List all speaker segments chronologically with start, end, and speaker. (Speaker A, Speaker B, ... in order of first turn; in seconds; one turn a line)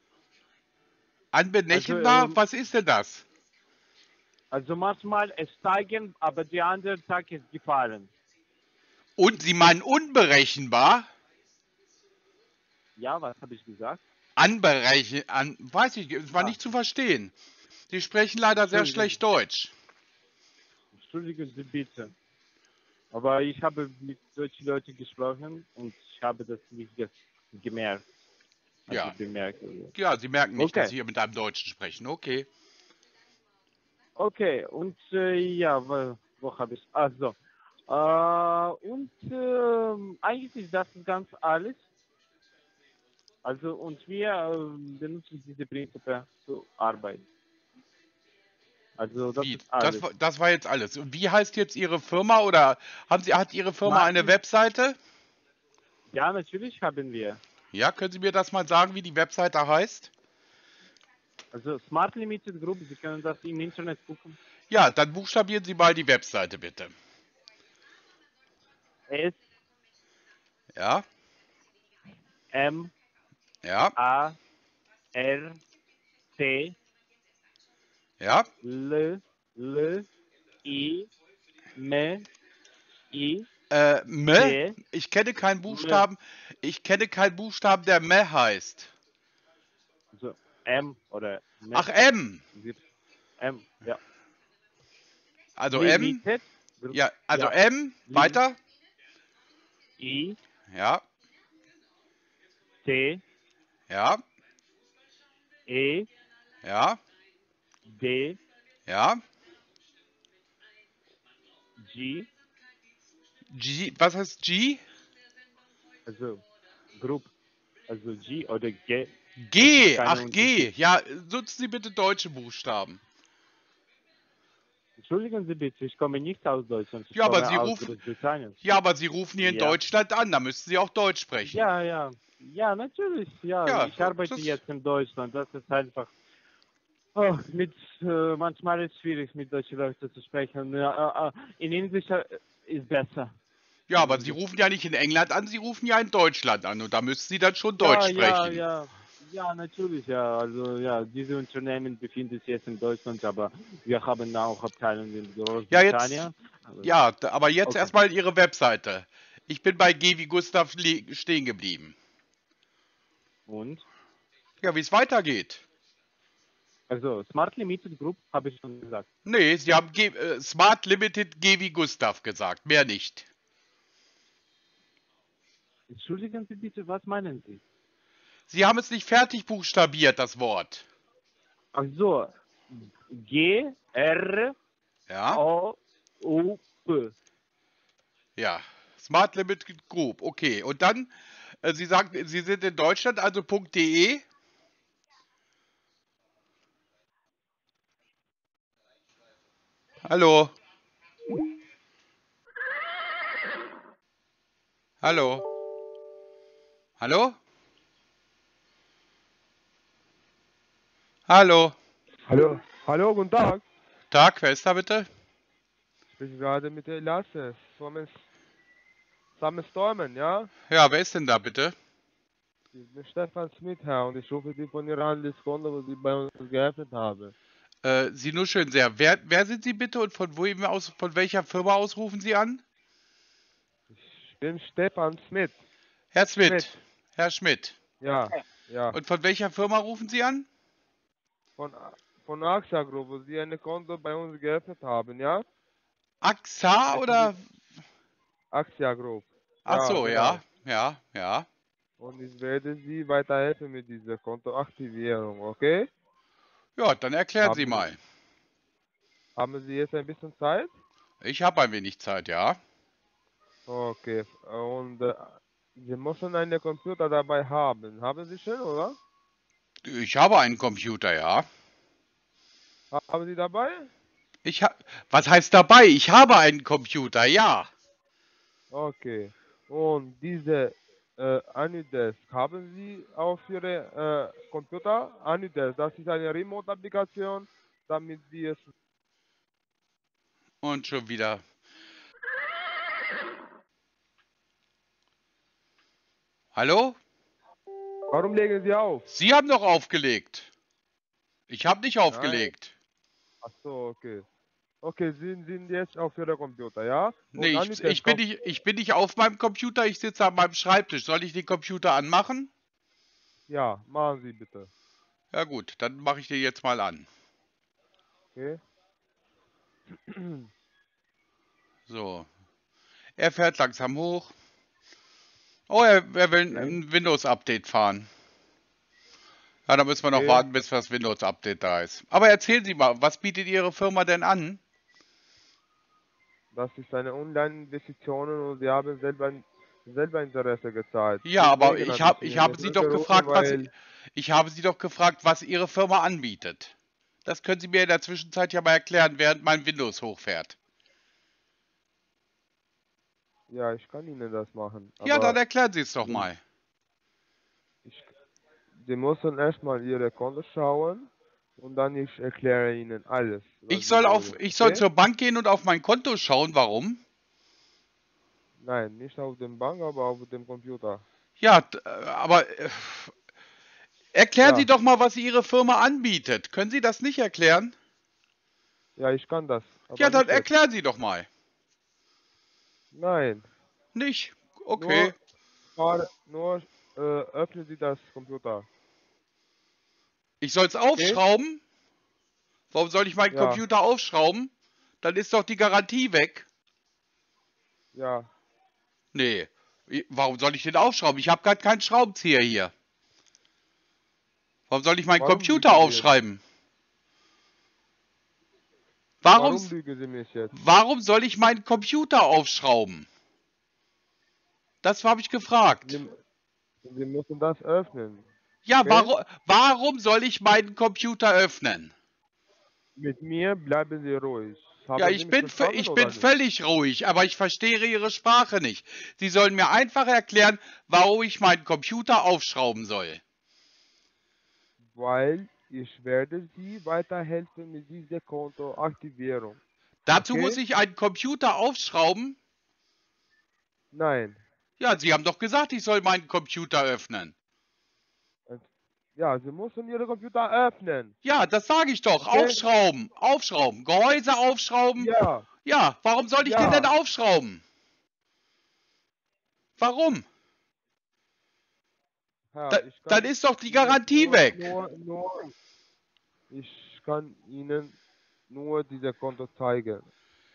Speaker A: 1.3-3.2
Speaker B: 1.7-2.4
Speaker B: 4.5-8.1
Speaker A: 9.2-11.1
Speaker B: 13.0-14.0
Speaker A: 14.4-17.3
Speaker A: 17.9-19.7
Speaker B: 18.6-19.2
Speaker B: 20.9-22.1
Speaker B: 23.1-28.0
Speaker B: 28.9-29.9
Speaker A: 28.9-29.1
Speaker A: 29.9-32.5
Speaker B: 30.6-30.9
Speaker B: 34.2-37.4
Speaker B: 37.9-41.8
Speaker B: 43.4-47.2
Speaker B: 49.0-50.0
Speaker A: 49.4-55.0
Speaker B: 53.8-54.3
Speaker B: 56.1-57.4
Speaker A: 57.7-60.1
Speaker B: 61.5-64.4
Speaker A: 64.7-66.9
Speaker B: 69.1-69.4
Speaker A: 70.8-71.0
Speaker B: 72.5-72.9
Speaker A: 73.6-73.9
Speaker B: 74.0-74.4
Speaker B: 75.1-75.6
Speaker B: 76.4-76.8
Speaker A: 78.2-78.5
Speaker B: 78.6-80.1
Speaker B: 80.6-81.1
Speaker B: 81.8-82.2
Speaker B: 83.1-83.5
Speaker A: 83.7-88.9
Speaker B: 84.3-84.8
Speaker B: 85.7-86.0
Speaker B: 90.1-91.9
Speaker A: 91.7-92.4
Speaker B: 92.5-92.8
Speaker B: 93.4-94.0
Speaker A: 95.6-96.2
Speaker B: 95.7-97.5
Speaker A: 96.9-98.6
Speaker B: 98.1-98.4
Speaker B: 100.0-100.4
Speaker A: 100.7-101.0
Speaker B: 102.8-103.2
Speaker A: 103.9-104.2
Speaker B: 105.7-106.1
Speaker A: 106.6-107.0
Speaker B: 107.9-108.4
Speaker A: 108.9-109.2
Speaker B: 111.8-112.3
Speaker A: 113.5-114.8
Speaker B: 116.0-116.4
Speaker B: 117.0-117.3
Speaker B: 117.9-120.7
Speaker A: 119.4-123.0
Speaker B: 125.0-128.6
Speaker A: 127.1-127.9
Speaker A: 128.6-131.7
Speaker B: 129.4-129.8
Speaker B: 131.5-136.1
Speaker A: 133.7-134.6
Speaker B: 137.1-143.3
Speaker A: 143.9-148.6
Speaker B: 143.9-144.4
Speaker B: 147.8-156.9
Speaker A: 155.7-156.2
Speaker A: 156.8-161.9
Speaker B: 157.7-157.9
Speaker B: 163.5-163.8
Speaker A: 164.6-165.6
Speaker B: 166.9-169.1
Speaker A: 169.2-173.3
Speaker B: 175.9-177.6
Speaker A: 178.5-180.9
Speaker B: 181.7-184.5
Speaker A: 185.1-185.4
Speaker B: 185.3-187.1
Speaker A: 188.4-194.2
Speaker A: 200.0-200.5
Speaker A: 205.0-205.4
Speaker A: 207.0-207.4
Speaker A: 211.3-211.8
Speaker C: 212.3-213.6
Speaker A: 214.1-215.1
Speaker C: 216.1-218.2
Speaker C: 219.4-220.5
Speaker A: 220.7-221.8
Speaker C: 222.7-227.3
Speaker A: 227.8-232.6
Speaker C: 233.9-235.6
Speaker A: 236.1-237.8
Speaker C: 236.4-236.7
Speaker C: 238.0-239.0
Speaker A: 238.9-240.4
Speaker C: 241.6-245.4
Speaker A: 246.2-247.4
Speaker C: 246.9-247.3
Speaker C: 248.5-250.4
Speaker A: 249.7-251.5
Speaker C: 252.0-255.9
Speaker A: 256.8-258.0
Speaker C: 257.4-257.8
Speaker C: 259.4-260.7
Speaker A: 261.2-262.6
Speaker C: 263.7-269.0
Speaker A: 269.8-271.4
Speaker C: 272.9-273.9
Speaker A: 274.4-277.7
Speaker C: 278.7-288.7
Speaker A: 290.6-291.4
Speaker A: 296.5-297.0
Speaker C: 298.1-299.1
Speaker A: 299.1-300.5
Speaker A: 301.5-302.7
Speaker C: 302.1-302.5
Speaker C: 303.4-304.2
Speaker C: 304.8-308.2
Speaker A: 307.3-312.5
Speaker C: 313.5-314.7
Speaker A: 315.3-317.1
Speaker C: 318.3-318.6
Speaker C: 320.1-320.4
Speaker A: 321.9-322.3
Speaker A: 323.2-324.3
Speaker A: 325.7-328.1
Speaker A: 329.7-334.6
Speaker C: 330.1-330.4
Speaker C: 336.5-343.7
Speaker A: 341.2-346.7
Speaker A: 347.2-350.6
Speaker C: 353.5-355.4
Speaker A: 355.0-356.4
Speaker C: 358.8-364.8
Speaker A: 363.7-367.0
Speaker C: 368.6-371.0
Speaker A: 371.4-373.1
Speaker A: 374.1-377.7
Speaker C: 374.4-374.7
Speaker C: 379.0-380.5
Speaker A: 379.9-381.3
Speaker C: 382.9-383.5
Speaker A: 383.9-385.1
Speaker C: 384.8-385.1
Speaker C: 385.8-388.7
Speaker A: 390.4-391.6
Speaker A: 392.7-394.5
Speaker C: 393.3-393.6
Speaker A: 395.0-396.5
Speaker C: 397.9-398.3
Speaker A: 399.1-402.7
Speaker A: 404.7-406.4
Speaker C: 405.2-406.1
Speaker A: 409.2-409.7
Speaker C: 409.3-410.5
Speaker A: 410.5-413.1
Speaker A: 414.8-416.0
Speaker C: 415.8-416.1
Speaker C: 416.8-418.3
Speaker A: 418.6-421.9
Speaker C: 418.8-419.1
Speaker C: 423.0-426.2
Speaker A: 424.9-433.2
Speaker C: 434.9-439.6
Speaker A: 440.0-442.4
Speaker C: 440.1-440.6
Speaker C: 443.9-444.4
Speaker A: 444.8-447.3
Speaker C: 448.5-451.1
Speaker A: 451.2-455.1
Speaker C: 452.3-452.6
Speaker C: 455.0-455.5
Speaker A: 455.6-457.6
Speaker C: 456.4-456.9
Speaker A: 459.8-460.2
Speaker C: 462.5-465.5
Speaker A: 462.7-464.7
Speaker C: 466.5-468.0
Speaker C: 468.5-470.1